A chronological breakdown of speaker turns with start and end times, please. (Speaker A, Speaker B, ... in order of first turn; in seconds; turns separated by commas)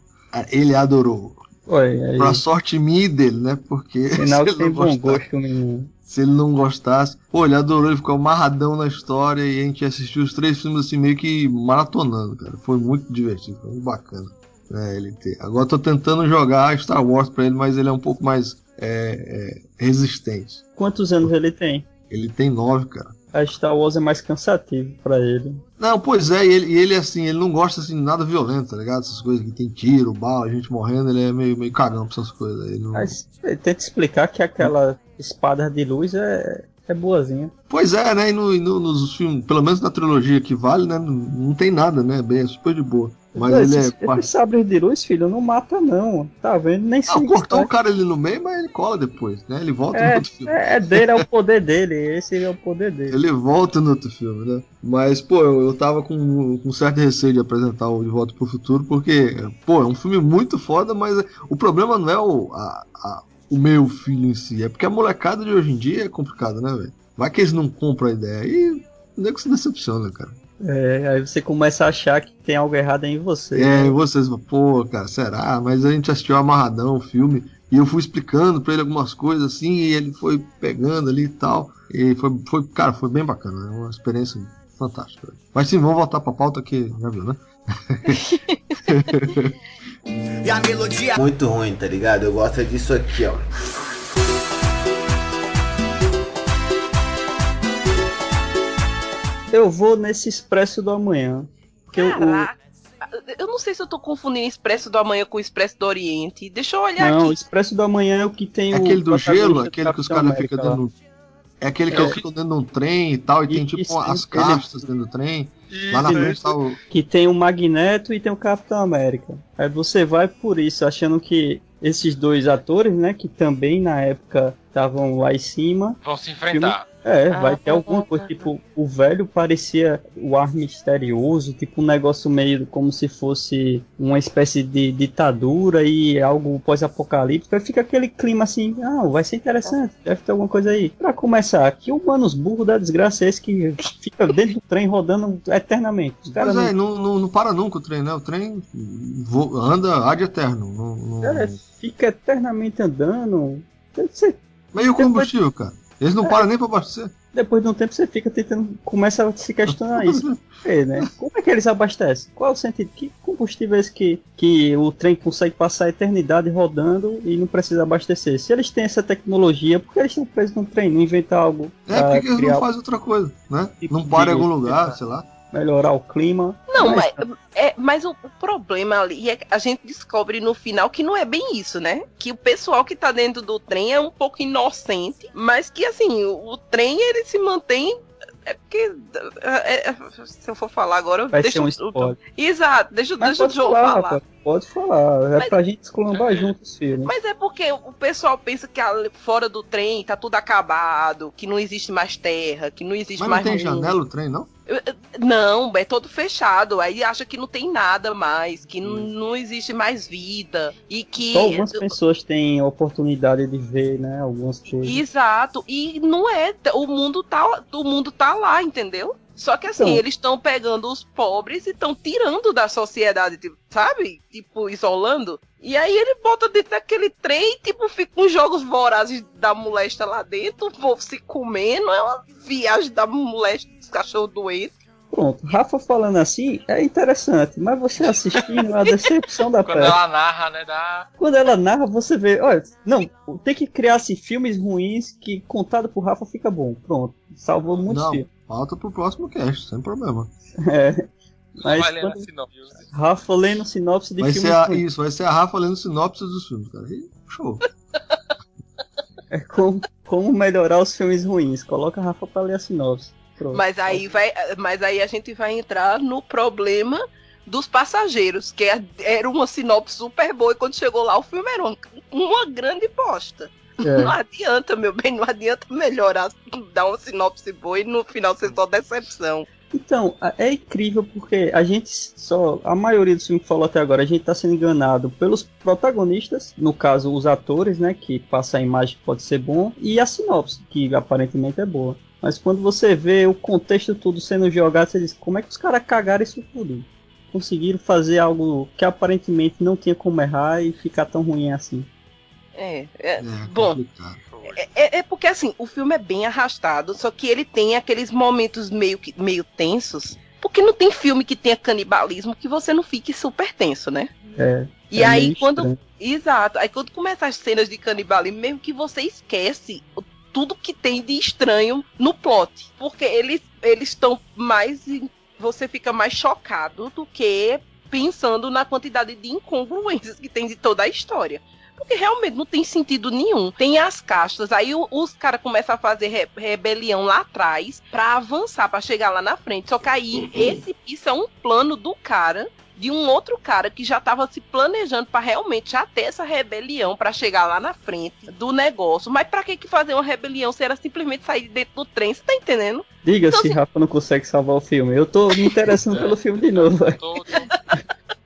Speaker A: 0.3-1.4, Speaker B: 1.7-2.4, Speaker A: 2.2-5.2, Speaker B: 4.2-5.9, Speaker A: 6.1-20.6, Speaker B: 20.8-21.9, Speaker A: 22.1-23.2, Speaker B: 23.3-25.6, Speaker A: 25.8-33.2, Speaker B: 33.0-37.5, Speaker A: 37.7-44.3, Speaker B: 43.4-47.7, Speaker A: 47.1-51.2, Speaker B: 49.9-53.2, Speaker A: 53.1-70.4, Speaker B: 70.6-74.0, Speaker A: 73.5-88.2, Speaker C: 88.2-88.8, Speaker A: 88.8-89.5, Speaker D: 90.5-93.5, Speaker B: 99.5-102.5, Speaker C: 101.9-107.4, Speaker B: 107.0-110.8, Speaker A: 108.7-111.0, Speaker A: 111.6-116.8, Speaker B: 111.9-112.2, Speaker E: 111.9-112.2, Speaker B: 113.5-114.7, Speaker E: 115.7-116.7, Speaker B: 116.0-116.4, Speaker B: 116.9-126.0, Speaker E: 126.0-126.9, Speaker B: 126.5-146.7, Speaker C: 127.3-128.5, Speaker A: 146.3-151.6, Speaker B: 151.2-154.4, Speaker A: 154.7-157.1, Speaker B: 155.0-155.3, Speaker B: 157.3-172.7, Speaker A: 159.7-160.6, Speaker A: 171.9-175.3, Speaker B: 173.8-175.0, Speaker B: 175.5-177.2, Speaker C: 176.7-194.2, Speaker B: 191.3-192.2, Speaker B: 193.2-197.1, Speaker E: 196.1-196.6, Speaker C: 197.1-204.0, Speaker A: 203.2-204.5, Speaker C: 204.7-211.9, Speaker A: 208.8-209.1, Speaker B: 211.3-215.0, Speaker C: 214.8-234.8, Speaker B: 219.8-220.0, Speaker B: 235.1-240.0, Speaker E: 238.4-238.7, Speaker E: 239.6-241.1, Speaker B: 241.2-248.3, Speaker A: 247.9-250.3, Speaker B: 250.7-252.2, Speaker E: 251.6-252.9, Speaker B: 252.9-254.8, Speaker A: 254.2-257.6, Speaker B: 259.3-264.0, Speaker C: 263.5-279.5, Speaker B: 273.8-274.1, Speaker B: 279.7-301.9, Speaker C: 302.6-303.8, Speaker A: 303.2-304.2, Speaker E: 304.3-304.7, Speaker C: 304.5-314.2, Speaker B: 314.4-315.8, Speaker C: 314.9-353.6, Speaker B: 353.1-357.0, Speaker E: 355.9-357.5, Speaker C: 357.5-357.8